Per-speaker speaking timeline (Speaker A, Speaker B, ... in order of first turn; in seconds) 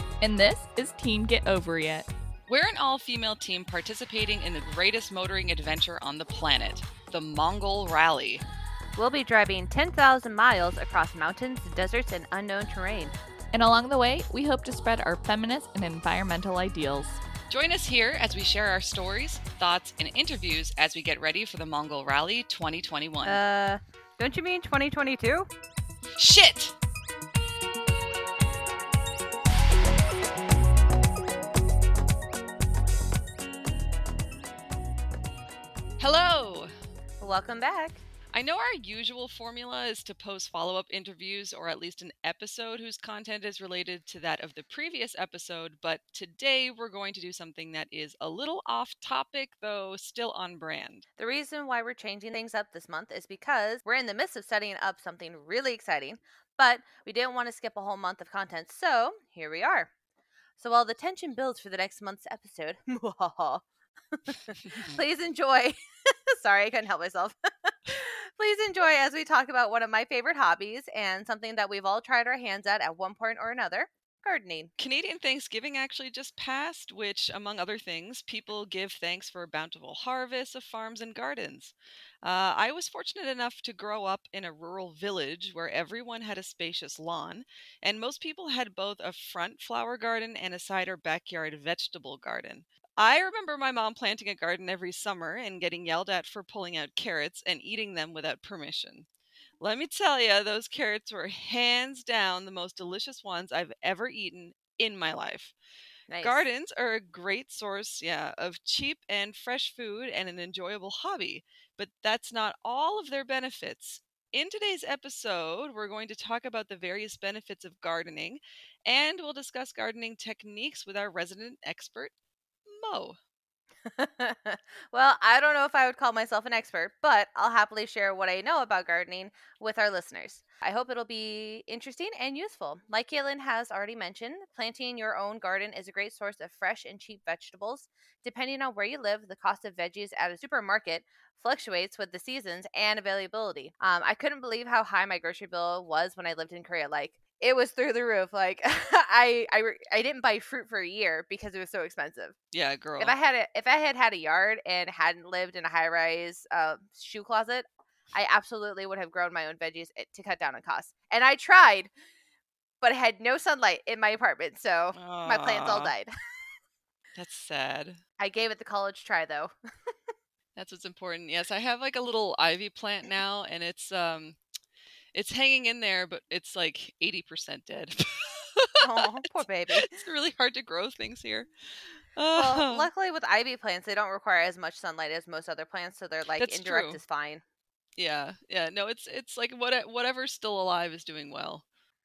Speaker A: 0.2-2.1, 13.5-17.2
Speaker B: 2.5-8.4, 17.5-23.4, 26.2-26.8, 36.0-36.7, 38.3-51.0, 64.7-65.0, 74.8-99.1, 99.6-105.5, 106.2-122.1, 122.7-123.2, 152.5-153.2, 164.9-165.9, 167.2-168.0, 170.6-174.4, 175.1-182.9, 186.4-187.0, 188.0-191.7
Speaker C: 9.0-13.2, 23.2-25.5, 37.2-38.0, 51.2-59.9, 60.6-74.7, 106.1-106.5, 123.9-152.4, 153.0-161.9, 162.8-166.1, 168.2-169.9, 178.8-179.9, 182.4-187.4